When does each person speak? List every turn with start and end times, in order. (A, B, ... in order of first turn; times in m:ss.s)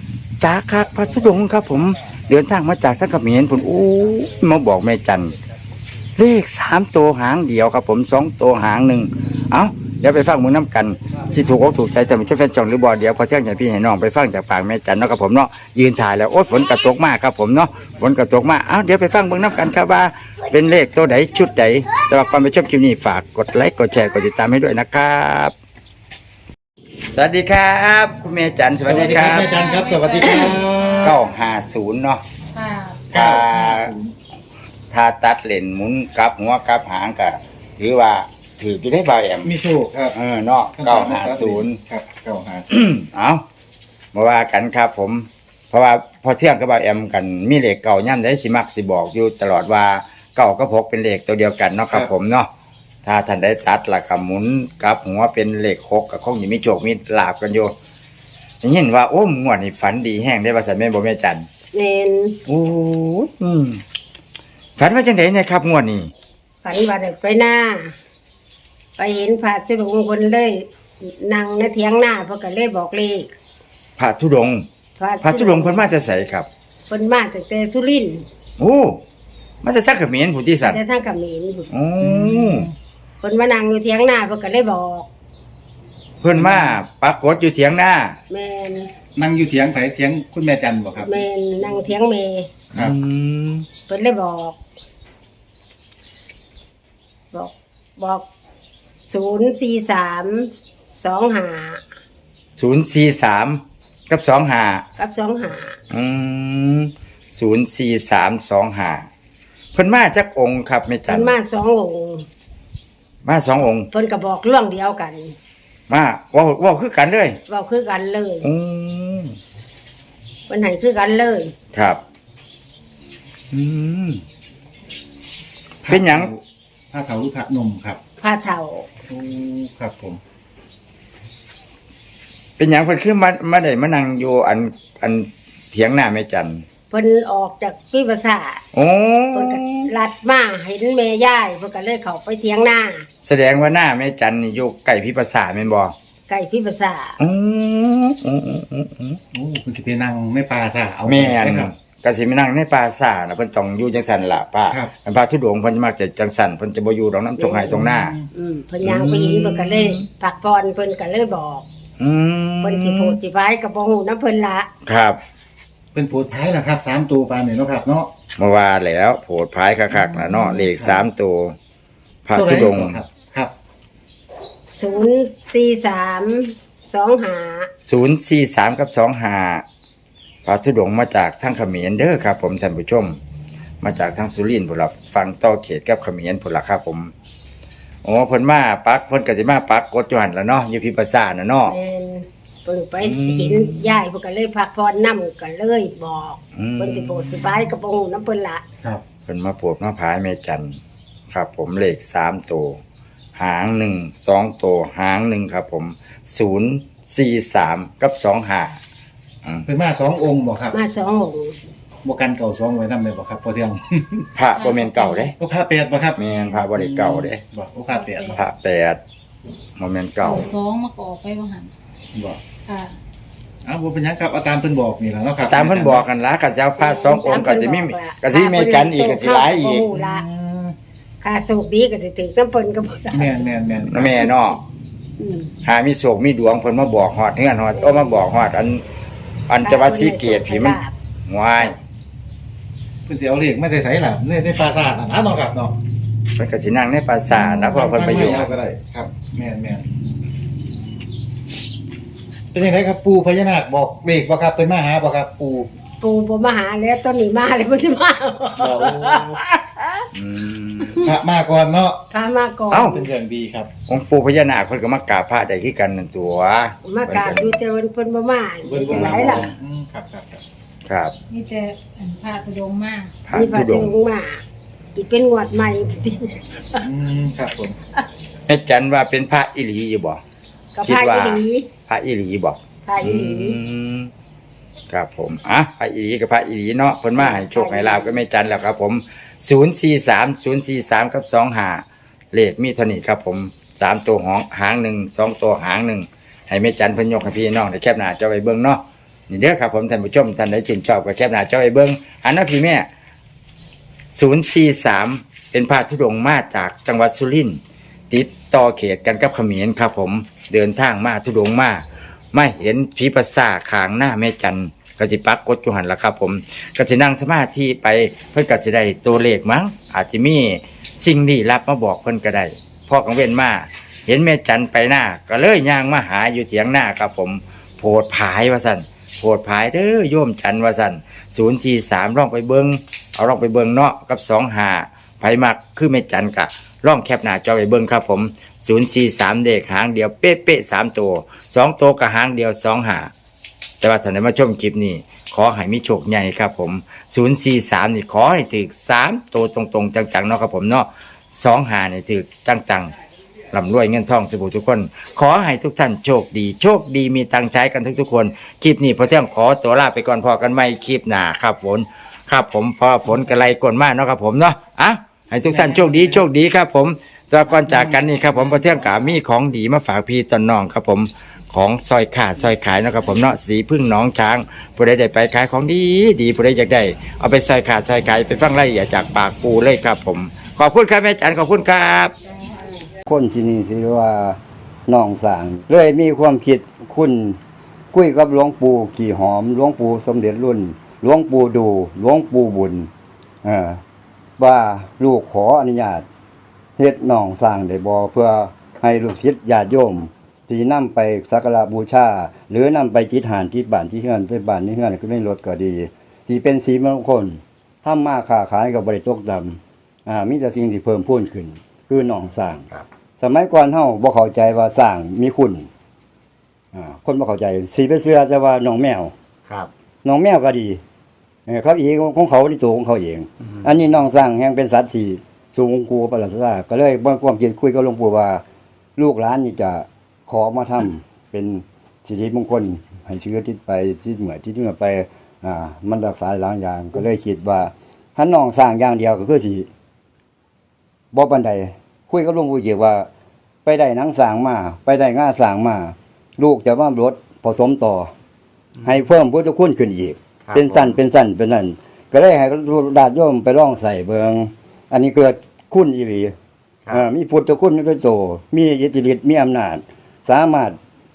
0:00.4-0:05.4 A
0:06.2-0:25.5 A
0:27.1-0:29.6 A
0:28.8-0:31.2 B
0:29.0-0:31.3 C
0:31.0-0:32.2 A
0:32.5-0:33.0 C
0:33.1-0:33.9 A
0:33.1-0:34.0 B
0:34.9-0:39.5 A
0:39.4-0:40.2 B
0:40.1-0:41.8 A
0:40.8-0:42.7 B
0:42.7-0:43.4 A
0:44.1-0:52.5 A
0:53.0-0:57.7 A
0:58.6-1:01.5 A
1:01.7-1:02.4 D
1:02.5-1:03.8 A
1:04.8-1:06.1 A
1:06.6-1:07.9 D
1:09.0-1:13.3 D
1:14.0-1:14.7 A
1:15.0-1:15.9 D
1:15.2-1:16.5 A
1:16.9-1:18.3 D
1:18.6-1:19.0 A
1:19.6-1:20.8 A
1:20.6-1:21.7 D
1:21.7-1:22.7 A
1:22.0-1:22.7 B
1:23.2-1:25.1 D
1:26.2-1:28.2 A
1:26.4-1:26.7 B
1:28.3-1:28.9 D
1:29.2-1:31.2 B
1:31.0-1:32.7 D
1:32.7-1:33.7 A
1:33.9-1:34.6 D
1:37.3-1:38.3 D
1:39.1-1:41.8 D
1:42.6-1:44.8 A
1:45.0-1:45.8 D
1:45.9-1:49.1 A
1:49.7-1:51.4 A
1:51.1-1:52.3 D
1:53.2-1:53.9 A
1:53.9-1:55.4 D
1:55.9-1:57.4 A
1:57.5-1:58.5 D
1:58.4-1:59.4 A
2:00.5-2:01.6 D
2:01.7-2:02.0 A
2:03.5-2:04.2 A
2:05.9-2:06.4 B
2:05.9-2:06.3 A
2:06.9-2:08.0 B
2:08.2-2:09.0 D
2:09.0-2:10.2 B
2:12.6-2:16.6 A
2:16.9-2:18.6 D
2:18.7-2:19.9 A
2:19.3-2:23.1 D
2:23.2-2:25.9 A
2:26.3-2:27.2 D
2:27.2-2:29.2 A
2:29.3-2:31.7 B
2:31.1-2:38.2 A
2:37.4-2:37.7 D
2:37.8-2:38.3 B
2:38.3-2:41.7 D
2:38.8-2:40.1 A
2:42.0-2:43.2 A
2:42.6-2:44.7 D
2:44.9-2:45.2 A
2:45.9-2:48.1 B
2:48.4-2:51.6 A
2:49.9-2:51.1 B
2:52.3-2:53.0 A
2:52.3-2:53.5 B
2:54.7-2:57.7 D
2:57.9-2:59.6 A
3:00.4-3:03.2 A
3:03.8-3:07.1 A
3:08.0-3:11.8 A
3:11.7-3:18.6 D
3:13.0-3:14.0 A
3:16.6-3:17.7 A
3:19.3-3:20.8 A
3:21.3-3:22.8 A
3:23.4-3:28.8 A
3:29.7-3:30.8 B
3:30.7-3:31.6 D
3:32.0-3:34.3 B
3:34.4-3:35.3 A
3:34.6-3:35.3 C
3:35.4-3:38.4 B
3:36.2-3:37.4 A
3:37.9-3:38.4 C
3:38.3-3:39.0 A
3:39.8-3:40.5 A
3:40.2-3:41.7 C
3:42.1-3:42.4 B
3:42.7-3:43.0 C
3:43.6-3:46.0 B
3:45.5-3:49.9 A
3:46.8-3:50.2 D
3:49.9-3:50.8 B
3:51.2-3:53.4 D
3:53.1-3:54.3 B
3:53.8-3:54.6 A
3:55.2-3:55.5 D
3:55.6-3:58.8 A
3:57.8-3:58.2 D
3:59.5-4:01.8 A
3:59.6-4:00.9 D
4:03.0-4:05.8 B
4:06.4-4:08.5 A
4:07.5-4:09.9 B
4:12.5-4:15.7 B
4:16.0-4:20.1 D
4:18.6-4:19.4 B
4:20.1-4:21.1 A
4:20.8-4:21.1 D
4:21.0-4:22.0 B
4:22.1-4:23.1 D
4:22.7-4:23.0 A
4:22.9-4:23.7 B
4:23.9-4:27.6 A
4:26.8-4:29.5 D
4:28.7-4:30.4 B
4:28.9-4:29.3 A
4:30.9-4:31.1 A
4:31.3-4:33.2 C
4:33.2-4:33.9 A
4:33.3-4:34.4 D
4:35.0-4:36.9 D
4:36.8-4:37.8 B
4:38.5-4:40.2 A
4:40.8-4:41.7 D
4:40.8-4:44.1 A
4:42.8-4:43.6 D
4:44.9-5:02.9 A
4:47.2-4:48.2 D
5:04.1-5:43.1 A
5:43.8-5:52.9 A
5:53.5-6:22.1 A
6:05.4-6:06.2 B
6:23.1-6:27.4 E
6:27.9-6:32.9 E
6:33.4-6:33.8 E
6:34.4-6:36.0 E
6:36.8-6:52.6 E
6:53.2-6:55.7 E
6:56.7-6:59.1 E
7:00.0-7:00.8 E
7:01.5-7:08.4 E
7:09.0-7:19.7 E
7:21.1-7:23.1 E
7:23.6-7:28.1 E
7:28.8-7:29.0 A
7:28.8-7:36.3 E
7:30.5-7:31.0 A
7:36.9-7:40.8 E